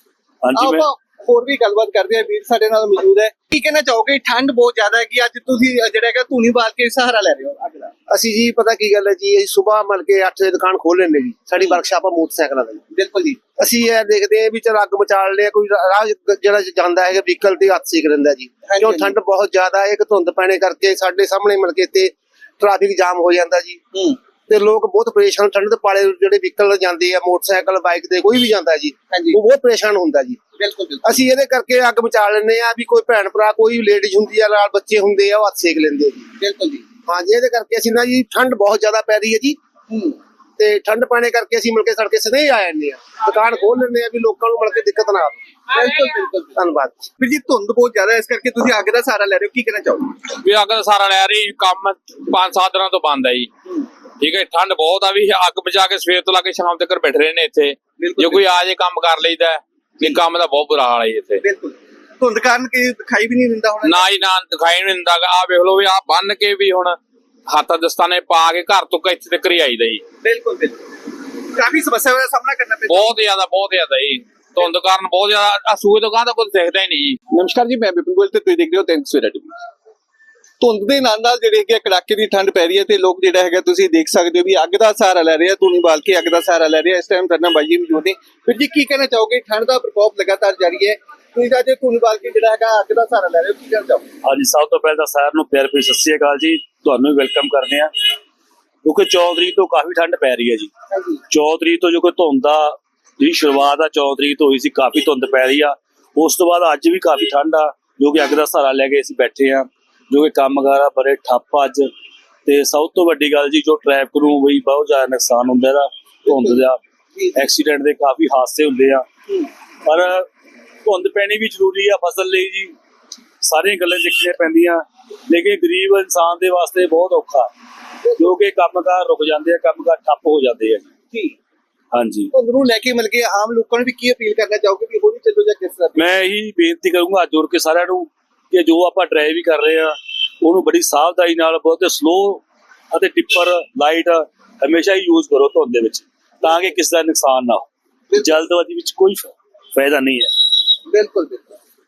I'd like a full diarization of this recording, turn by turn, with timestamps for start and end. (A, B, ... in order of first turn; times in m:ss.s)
0:00.4-0:00.9 A
0:00.5-0:07.9 B
0:08.1-0:12.8 C
0:12.9-0:13.4 B
0:13.6-0:23.8 C
0:18.7-0:19.2 B
0:24.5-0:30.4 C
0:29.1-0:29.4 B
0:30.6-0:31.1 B
0:31.0-0:36.3 C
0:36.4-0:36.8 B
0:37.1-0:39.6 C
0:39.9-0:40.2 B
0:40.6-0:45.4 C
0:45.7-0:46.6 B
0:46.6-0:47.1 C
0:47.2-0:50.1 B
0:50.4-0:53.5 D
0:54.2-1:01.4 D
0:58.0-0:58.5 B
1:01.4-1:04.1 B
1:03.8-1:07.0 D
1:07.5-1:10.0 D
1:10.2-1:10.8 B
1:11.5-1:13.2 B
1:12.9-1:17.2 D
1:17.3-1:19.6 B
1:20.6-1:34.0 B
1:34.2-1:37.9 A
1:38.8-1:40.7 A
1:40.9-1:41.2 B
1:41.3-1:51.9 A
1:52.5-1:56.8 A
1:57.3-1:59.1 A
1:59.8-2:00.3 A
2:00.8-2:02.7 A
2:03.4-2:07.5 A
2:08.2-2:10.9 A
2:11.9-2:12.3 A
2:12.3-2:16.1 B
2:16.0-2:30.4 A
2:30.9-2:31.6 B